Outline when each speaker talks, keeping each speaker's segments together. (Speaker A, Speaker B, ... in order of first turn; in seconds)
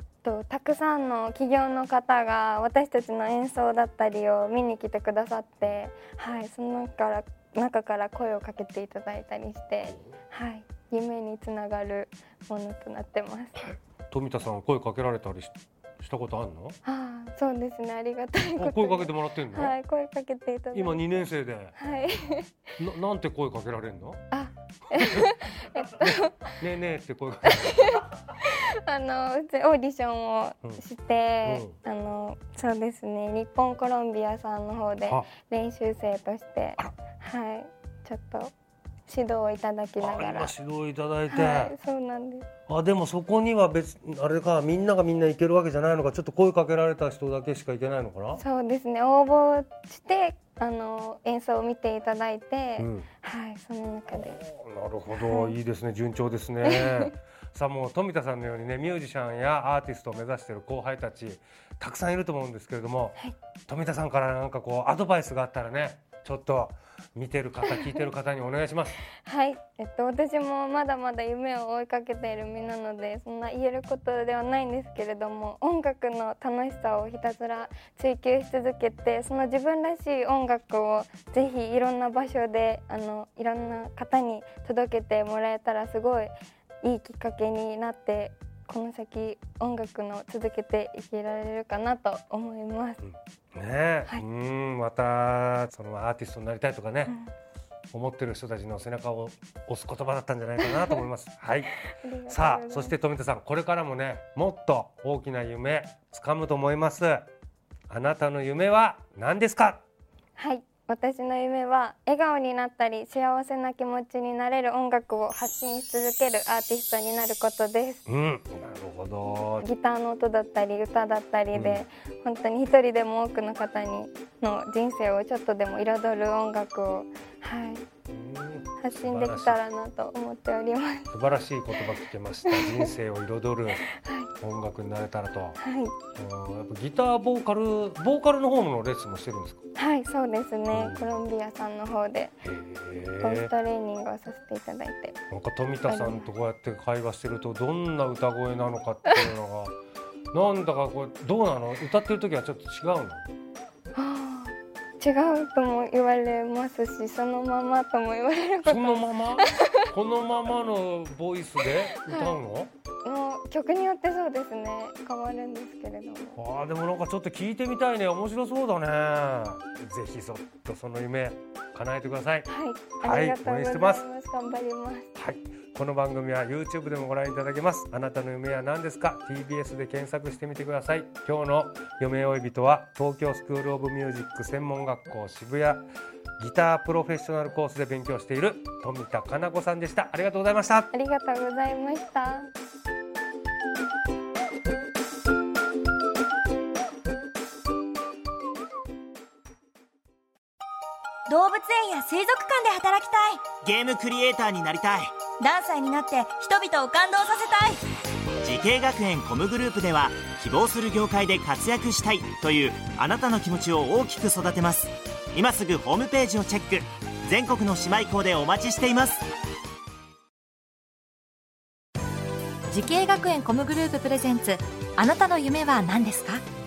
Speaker A: 0.2-13.7, 16.9-22.6, 24.3-26.6, 27.5-38.5, 39.1-40.5, 41.3-42.5, 48.4-54.4, 55.1-55.6, 56.6-57.1, 69.2-93.0, 100.7-101.0, 101.9-103.0, 110.4-118.0, 119.6-127.9, 128.8-131.1, 132.4-132.9, 133.8-134.3, 135.6-135.9, 139.8-142.4, 143.2-145.2, 145.9-146.3, 153.9-159.9, 161.9-162.3, 163.0-166.4, 172.5-175.1, 190.9-192.5
Speaker B: 14.1-16.8, 18.6-19.8, 20.7-21.8, 22.8-24.2, 24.9-25.3, 25.8-28.1, 31.4-31.8, 40.0-41.7, 42.7-48.4, 52.8-53.1, 54.1-63.2, 63.7-69.0, 93.0-97.2, 97.9-101.7, 102.3-107.2, 107.9-109.8, 118.1-119.7, 121.5-121.8, 128.1-129.6, 131.1-133.9, 134.4-135.6, 136.2-139.6, 140.7-141.1, 142.4-143.5, 145.3-149.8, 150.3-153.2, 158.7-162.7, 166.4-172.5, 173.0-174.1, 175.2-185.9, 186.4-190.9
Speaker C: 201.3-203.5, 205.4-207.8
Speaker D: 203.6-205.2, 208.4-219.2
Speaker E: 222.7-226.4